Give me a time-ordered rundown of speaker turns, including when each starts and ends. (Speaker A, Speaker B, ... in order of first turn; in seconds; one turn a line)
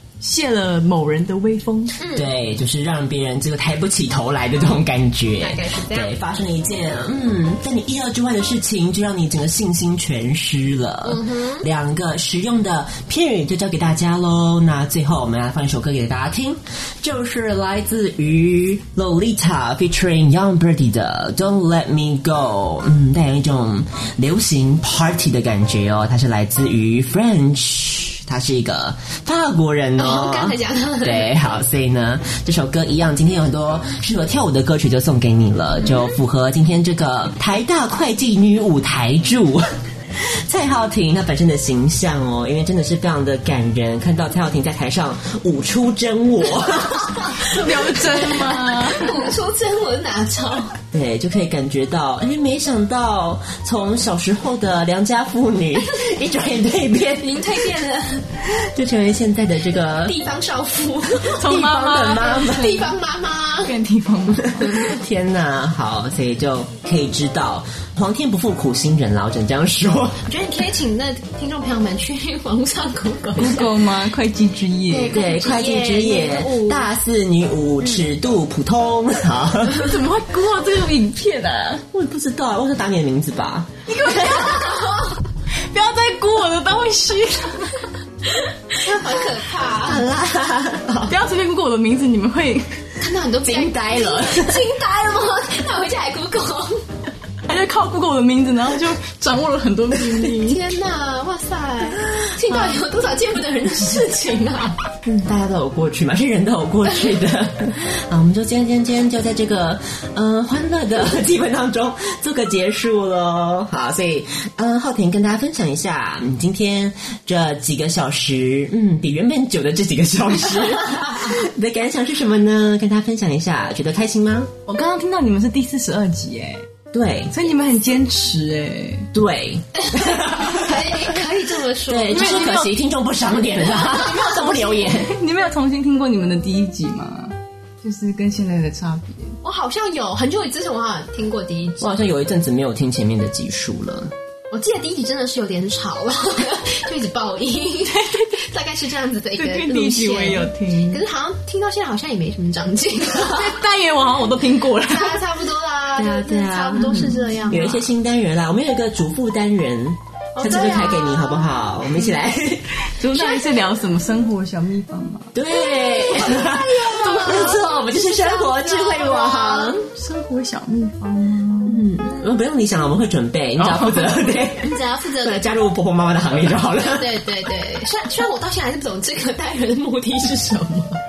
Speaker A: 0.2-2.0
Speaker B: 2.0-2.3
Speaker C: 2.1-47.4
Speaker B: 5.4-6.1
Speaker B: 11.0-11.6
Speaker B: 30.0-31.4
Speaker B: 47.1-50.7
Speaker A: 47.4-49.2
Speaker C: 50.9-57.4
Speaker B: 57.2-58.3
Speaker C: 58.4-60.2
Speaker B: 60.0-61.4
Speaker A: 61.4-62.9
Speaker C: 61.4-62.7
Speaker B: 62.3-63.7
Speaker A: 63.6-64.6
Speaker C: 64.4-70.2
Speaker B: 64.6-64.9
Speaker B: 70.3-73.7
Speaker A: 73.3-75.2
Speaker B: 74.9-76.9
Speaker C: 75.1-79.9
Speaker A: 79.8-81.8
Speaker C: 81.9-83.8
Speaker A: 83.9-85.1
Speaker B: 84.1-85.2
Speaker A: 85.7-87.8
Speaker B: 88.7-90.0
Speaker C: 89.8-91.2
Speaker A: 91.1-92.7
Speaker B: 93.0-96.8
Speaker C: 93.4-94.6
Speaker A: 97.5-100.6
Speaker B: 100.0-104.8
Speaker C: 105.0-124.5
Speaker A: 124.7-126.6
Speaker C: 126.9-127.3
Speaker A: 127.3-129.1
Speaker C: 129.1-131.0
Speaker B: 129.8-132.6
Speaker C: 131.9-135.1
Speaker A: 132.1-132.7
Speaker B: 133.9-134.8
Speaker A: 133.9-139.4
Speaker B: 139.4-141.9
Speaker C: 141.8-144.1
Speaker B: 144.5-153.6
Speaker A: 149.3-151.0
Speaker A: 153.1-155.3
Speaker B: 154.8-157.8
Speaker C: 155.9-162.7
Speaker B: 160.3-161.4
Speaker A: 162.8-165.3
Speaker B: 163.1-163.5
Speaker C: 165.3-169.8
Speaker B: 165.5-169.8
Speaker A: 166.9-167.4
Speaker A: 169.9-171.9
Speaker C: 171.7-177.2
Speaker A: 173.6-174.1
Speaker B: 174.6-175.5
Speaker B: 176.8-181.0